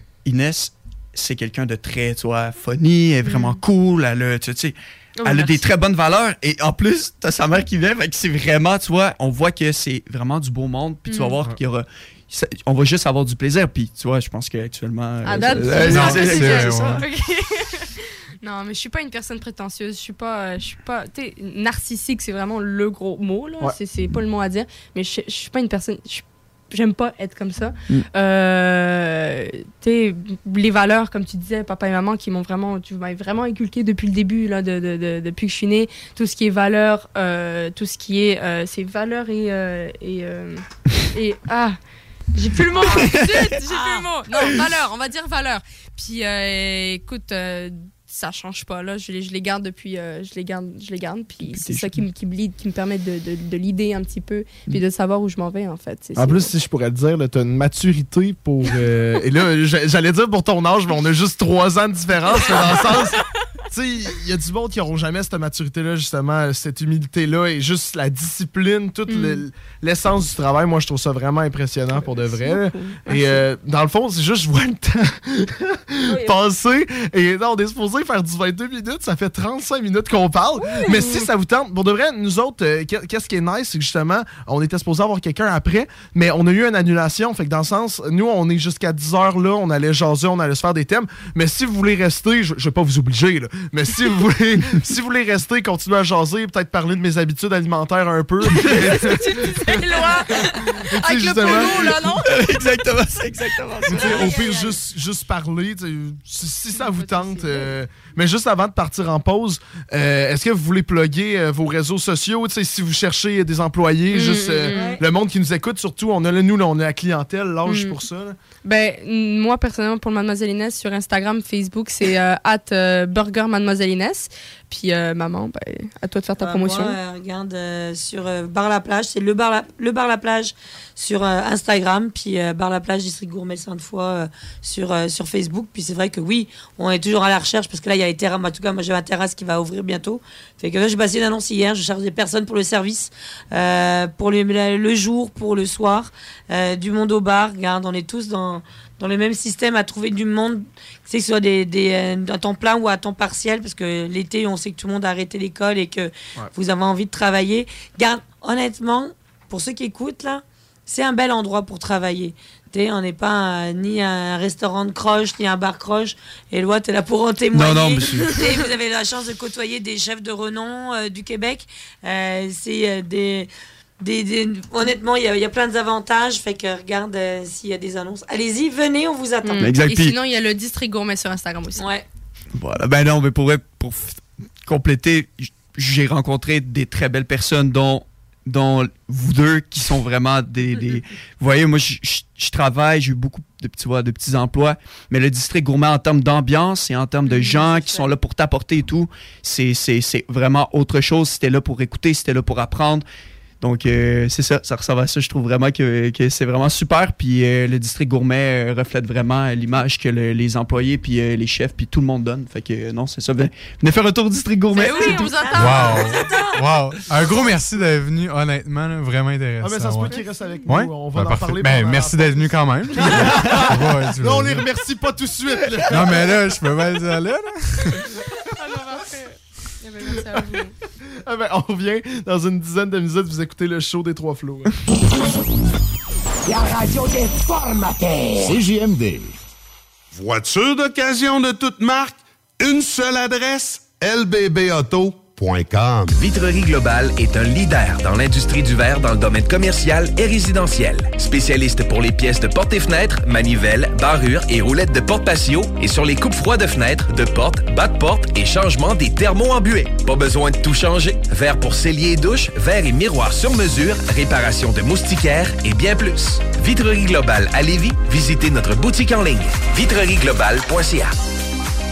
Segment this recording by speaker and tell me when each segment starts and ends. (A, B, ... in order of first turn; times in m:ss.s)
0:00.2-0:17.0 A
0:03.2-0:03.6 B
0:05.2-0:05.7 B
0:11.1-0:11.4 B
0:15.3-0:17.9 B
0:15.8-0:17.0 C
0:18.4-0:41.8 B
0:42.4-0:56.5 B
0:43.1-0:43.4 A
0:43.7-0:44.1 D
0:51.5-0:52.0 A
0:56.2-1:42.0 E
1:09.1-1:09.4 B
1:11.9-1:13.4 B
1:16.1-1:16.4 B
1:20.6-1:21.3 B
1:38.5-1:39.1 A
1:38.6-1:42.3 B
1:41.4-1:44.4 A
1:43.9-1:44.8 D
1:44.0-1:58.4 E
1:46.7-1:47.7 B
1:54.1-1:55.0 B
1:54.7-1:55.0 D
1:57.7-1:58.0 B
1:58.6-2:07.0 B
2:06.4-2:53.5 D
2:47.6-2:48.4 A
2:54.0-2:59.7 D
2:59.4-3:01.9 B
2:59.6-3:00.2 A
3:01.8-3:02.0 D
3:02.6-3:23.0 A
3:17.4-3:18.1 D
3:23.6-3:35.5 A
3:34.7-3:36.2 B
3:34.8-3:36.6 D
3:35.5-3:44.7 C
3:39.6-3:46.4 E
3:40.1-3:40.7 B
3:45.9-3:48.0 C
3:48.5-3:50.7 B
3:51.2-3:54.7 E
3:58.4-3:59.3 F
4:00.1-4:06.1 F
4:06.1-4:31.2 G